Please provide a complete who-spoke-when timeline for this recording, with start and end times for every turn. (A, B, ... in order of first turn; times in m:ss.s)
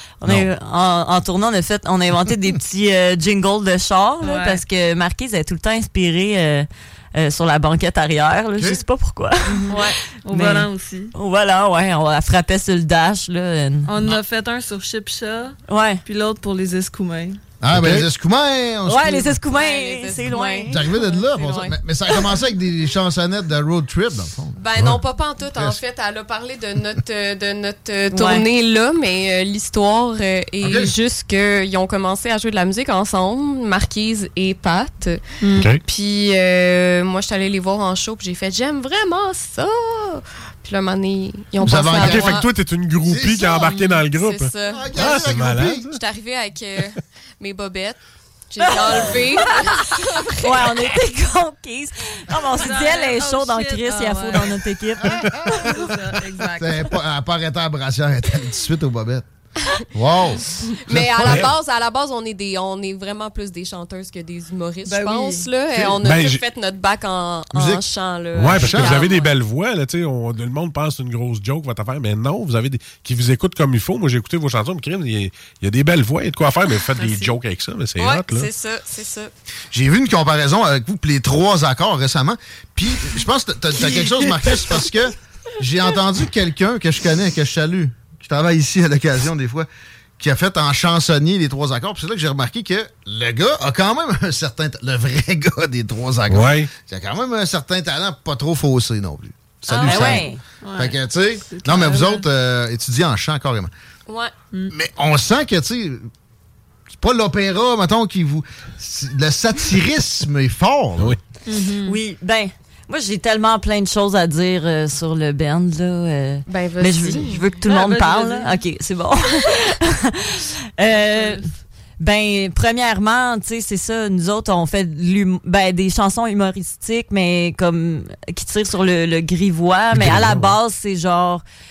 0:00.2-0:13.9 A
0:04.2-0:04.6 B
0:08.6-0:08.8 C
0:09.7-0:10.0 D
0:10.2-0:11.1 B
0:13.8-0:17.4 B
0:15.7-0:16.0 A
0:17.6-0:19.4 C
0:17.7-0:18.1 E
0:18.8-0:21.0 A
0:19.4-0:21.7 D
0:20.6-0:24.9 C
0:24.6-0:35.2 D
0:28.1-0:28.4 A
0:30.6-0:30.9 C
0:35.4-0:35.7 B
0:35.6-0:35.8 E
0:35.8-0:42.5 D
0:41.6-0:42.4 C
0:41.9-0:46.0 E
0:43.0-0:43.6 C
0:43.5-0:44.9 D
0:44.6-0:45.9 C
0:45.8-0:50.7 D
0:48.6-0:49.3 A
0:50.4-0:55.6 A
0:52.5-0:54.7 B
0:55.0-0:55.9 C
0:55.5-0:56.9 B
0:56.4-0:59.2 C
0:59.9-1:01.5 C
1:00.9-1:09.3 D
1:01.2-1:01.5 E
1:04.8-1:05.5 B
1:06.0-1:06.4 E
1:07.5-1:07.8 C
1:08.3-1:18.5 E
1:08.5-1:09.0 C
1:16.9-1:17.3 B
1:18.0-1:19.3 D
1:19.7-1:29.7 C
1:24.0-1:24.5 B
1:30.2-1:43.7 C
1:36.3-1:36.7 E
1:39.7-1:40.2 D
1:39.8-1:40.4 A
1:40.6-1:42.2 B
1:44.1-1:44.3 D
1:44.7-1:46.1 C
1:46.9-1:51.2 C
1:51.4-1:52.0 B
1:51.8-2:01.4 A
1:56.5-1:57.5 D
1:57.6-1:58.6 B
2:00.9-2:01.4 B
2:02.0-2:11.4 A
2:09.9-2:10.6 E